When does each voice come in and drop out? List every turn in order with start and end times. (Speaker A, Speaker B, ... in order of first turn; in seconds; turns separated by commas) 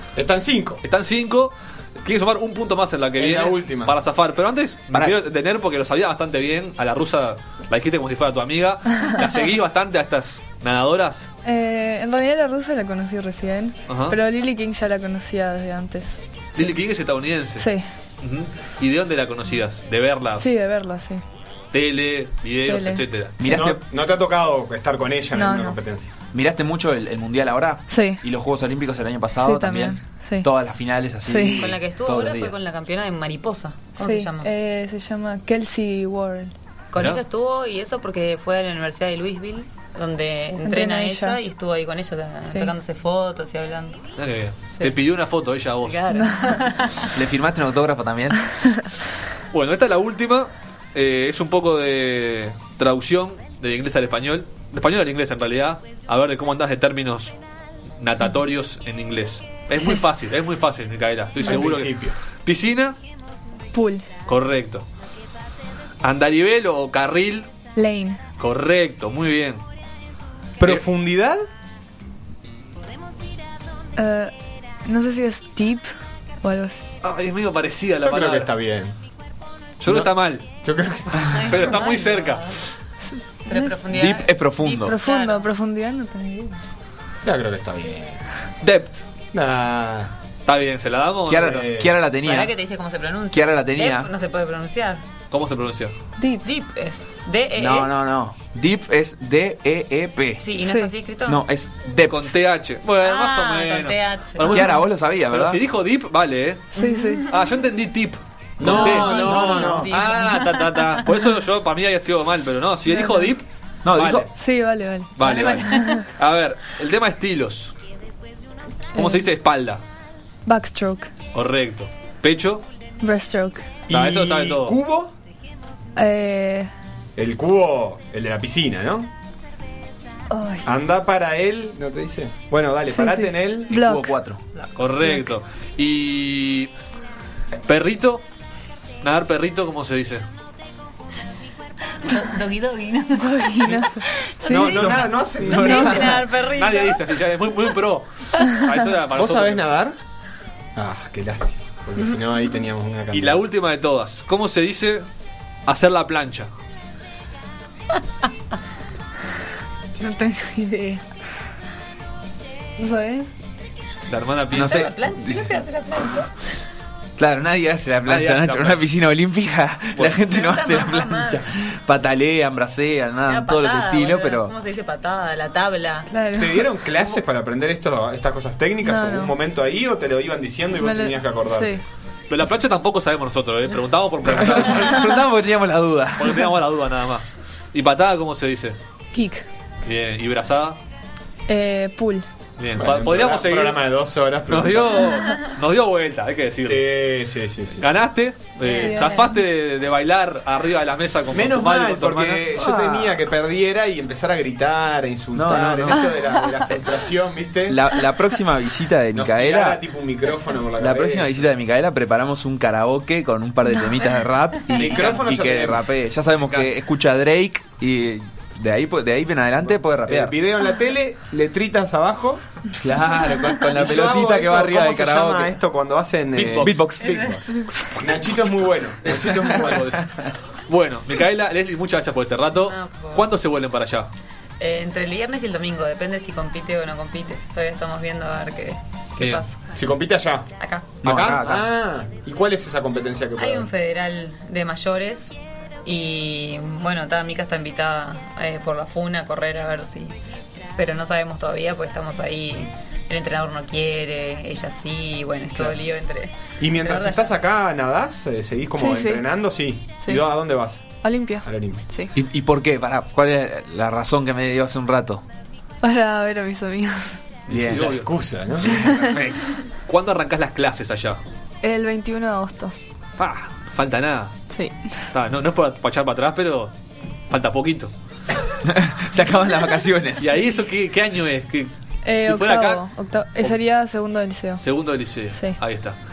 Speaker A: 0.2-0.8, Speaker B: 0.8-11.3, Speaker A: 3.2-4.0, Speaker C: 11.4-16.8, Speaker B: 13.9-14.2, Speaker B: 16.6-17.7, Speaker C: 17.6-17.9, Speaker B: 18.2-20.5, Speaker C: 20.4-21.2, Speaker B: 21.7-23.4, Speaker C: 22.6-23.0, Speaker D: 23.4-23.8, Speaker A: 23.5-26.1, Speaker C: 25.4-25.8, Speaker D: 26.3-32.5, Speaker C: 27.9-28.2, Speaker C: 29.4-30.5, Speaker C: 31.3-31.7, Speaker E: 31.6-34.5, Speaker C: 34.0-36.5, Speaker E: 36.9-44.0, Speaker C: 40.6-41.4, Speaker B: 44.2-46.1, Speaker E: 45.8-47.1, Speaker D: 47.1-48.5, Speaker B: 49.5-57.4, Speaker B: 58.0-63.0, Speaker A: 61.4-62.2, Speaker C: 63.7-64.1, Speaker B: 64.3-64.8, Speaker B: 66.0-67.5, Speaker C: 67.8-68.2, Speaker B: 68.4-69.6, Speaker A: 70.6-71.4, Speaker C: 74.0-75.9, Speaker C: 76.4-76.8, Speaker B: 77.0-78.5, Speaker A: 78.0-78.9, Speaker B: 79.8-80.5, Speaker A: 79.8-80.1, Speaker A: 80.6-81.8, Speaker E: 81.3-82.6, Speaker B: 81.5-82.6, Speaker C: 83.5-83.9, Speaker E: 83.5-85.5, Speaker D: 83.9-85.0, Speaker C: 84.8-86.6, Speaker A: 87.2-88.2, Speaker B: 88.6-89.0, Speaker A: 89.3-90.1, Speaker B: 90.5-91.7, Speaker D: 91.3-92.5, Speaker A: 91.4-91.9, Speaker E: 92.2-95.0, Speaker D: 93.3-94.1, Speaker B: 95.3-95.9, Speaker C: 96.2-96.5, Speaker E: 96.4-97.9, Speaker D: 97.6-100.4, Speaker E: 100.4-101.4, Speaker C: 100.6-100.9, Speaker D: 101.3-102.3, Speaker B: 102.1-114.3, Speaker E: 103.0-104.7, Speaker D: 104.4-105.6, Speaker C: 106.8-107.3, Speaker E: 106.8-107.3, Speaker A: 108.6-109.9, Speaker E: 108.7-110.9, Speaker C: 109.0-109.8, Speaker C: 112.9-113.3, Speaker D: 113.8-114.3, Speaker C: 114.4-116.0, Speaker B: 115.2-117.8, Speaker E: 115.2-115.9, Speaker C: 119.0-119.3, Speaker B: 119.0-119.8, Speaker C: 120.5-121.1, Speaker B: 121.3-122.7, Speaker C: 123.0-123.7, Speaker A: 123.9-125.1, Speaker B: 123.9-124.8, Speaker C: 126.0-126.7, Speaker A: 127.2-129.1, Speaker C: 130.3-130.7, Speaker A: 130.6-133.8, Speaker C: 132.9-134.2, Speaker D: 133.7-134.4, Speaker B: 134.8-136.7, Speaker C: 135.0-135.3, Speaker B: 137.7-138.2, Speaker B: 139.0-140.2, Speaker E: 142.0-144.9, Speaker C: 143.2-145.0, Speaker A: 144.4-146.2, Speaker E: 145.4-147.0, Speaker C: 145.6-146.2, Speaker B: 146.5-149.7, Speaker A: 149.2-150.0, Speaker A: 150.8-153.4, Speaker B: 153.1-155.1, Speaker B: 155.7-156.5, Speaker C: 160.0-161.0, Speaker C: 162.8-163.3, Speaker B: 164.1-164.9, Speaker E: 164.5-166.4, Speaker D: 164.5-165.5, Speaker D: 167.2-174.5, Speaker B: 168.1-168.8, Speaker E: 170.2-171.4, Speaker E: 173.2-176.1, Speaker C: 176.1-176.7, Speaker A: 176.3-181.8, Speaker C: 178.8-179.3, Speaker C: 180.8-181.8, Speaker B: 182.3-185.1, Speaker D: 184.3-186.5, Speaker B: 186.2-188.8, Speaker C: 189.1-189.5, Speaker B: 189.8-190.8, Speaker C: 191.5-192.3, Speaker B: 192.6-193.9, Speaker A: 192.7-195.2, Speaker B: 194.5-196.9, Speaker A: 196.6-197.9, Speaker B: 197.8-202.4, Speaker C: 198.6-199.4, Speaker A: 201.3-207.9, Speaker D: 202.5-203.2, Speaker D: 205.3-206.1, Speaker C: 206.1-206.7, Speaker D: 207.7-209.8, Speaker A: 209.1-211.5, Speaker D: 210.8-220.3, Speaker A: 214.7-215.9, Speaker A: 219.7-222.4, Speaker D: 222.8-225.5, Speaker A: 223.7-230.0, Speaker B: 226.4-226.8, Speaker D: 226.5-227.4, Speaker E: 227.0-227.3, Speaker B: 229.0-230.1, Speaker B: 230.7-234.1, Speaker E: 232.7-233.3, Speaker E: 234.6-239.6, Speaker A: 239.8-240.5, Speaker E: 240.6-241.0, Speaker B: 241.0-241.6, Speaker D: 241.0-241.6, Speaker A: 241.1-243.7, Speaker E: 243.4-250.2, Speaker E: 250.8-257.4, Speaker A: 256.6-260.8, Speaker C: 258.8-259.2, Speaker C: 261.0-262.1, Speaker A: 261.4-261.9, Speaker D: 262.1-265.2, Speaker C: 265.8-267.2, Speaker D: 267.5-267.9, Speaker A: 267.5-269.2, Speaker B: 267.7-268.1, Speaker C: 268.7-269.1, Speaker D: 269.0-269.4, Speaker B: 269.9-271.2, Speaker C: 271.6-272.7, Speaker B: 273.2-274.4, Speaker C: 274.5-275.0, Speaker B: 275.1-276.7, Speaker B: 277.3-277.9, Speaker D: 278.6-280.4, Speaker B: 280.2-282.8, Speaker C: 282.1-284.6, Speaker B: 284.6-286.0